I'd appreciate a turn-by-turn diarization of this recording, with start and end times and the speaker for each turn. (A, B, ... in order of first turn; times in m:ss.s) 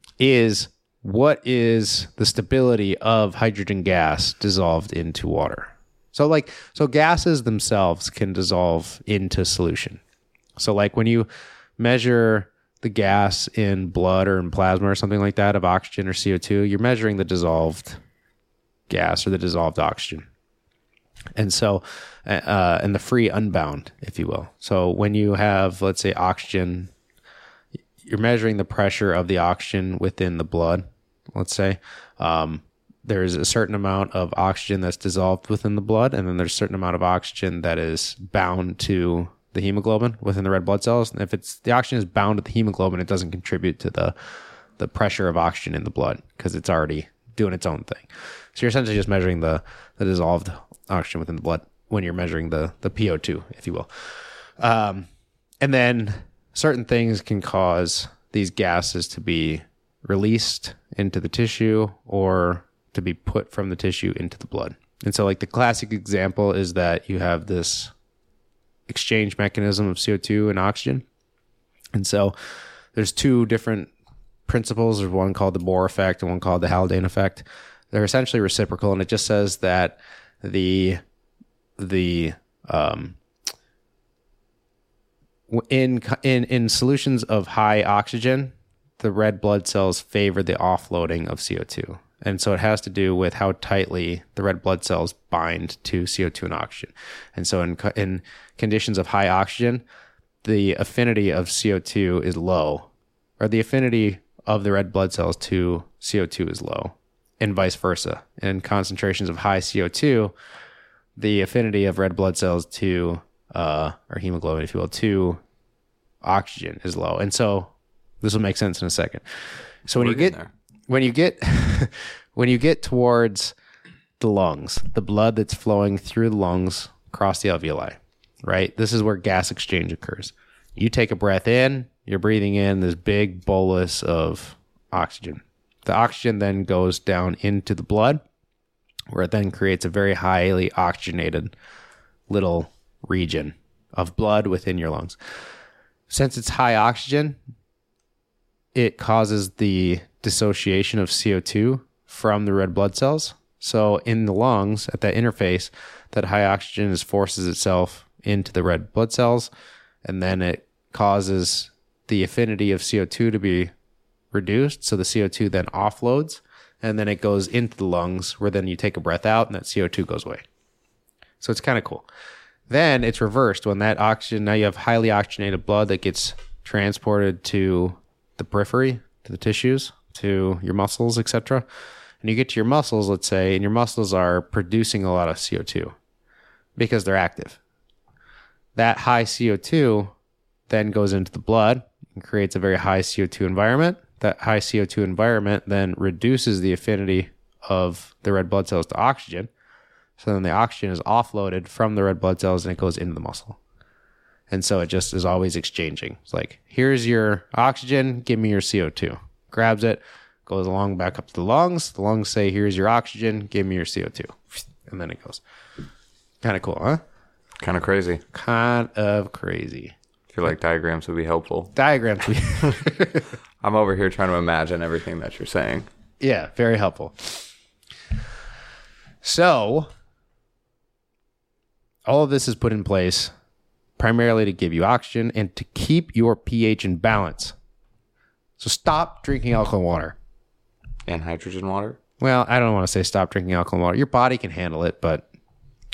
0:00.2-0:10.0 A
0:10.6-0:11.3 A
0:11.8-0:18.0 A
0:18.9-0:20.3 A
0:21.4-0:26.9 A
0:28.0-0:44.2 A
0:44.8-0:55.1 A
0:55.6-1:07.9 A
1:08.9-1:11.0 A
1:12.0-1:12.3 A
1:12.9-1:13.9 A
1:14.5-1:21.0 A
1:21.8-1:23.2 A
1:25.5-1:39.8 A
1:40.4-1:42.9 A
1:43.4-1:50.3 A
1:51.2-1:55.4 A
1:56.2-2:00.4 A
1:59.9-2:00.5 B
2:00.9-2:03.6 A
2:04.2-2:18.2 A
2:19.1-2:21.5 A
2:22.3-2:25.2 A
2:26.1-2:27.4 A
2:28.7-2:39.5 A
2:40.0-2:43.7 A
2:44.3-2:50.4 A
2:51.4-2:52.1 A
2:52.7-3:01.6 A
3:02.2-3:05.9 A
3:06.8-3:07.6 A
3:08.8-3:10.1 A
3:10.7-3:19.5 A
3:20.2-3:23.6 A
3:24.5-3:35.4 A
3:36.4-3:37.0 A
3:37.6-3:38.2 B
3:38.3-3:39.9 A
3:40.3-3:41.7 B
3:41.8-3:43.3 A
3:43.6-3:45.9 B
3:46.2-3:47.5 A
3:49.2-3:49.9 A
3:52.0-3:53.3 A
3:54.0-3:57.6 A
3:58.6-4:00.2 A
4:01.1-4:02.0 B
4:02.2-4:05.3 A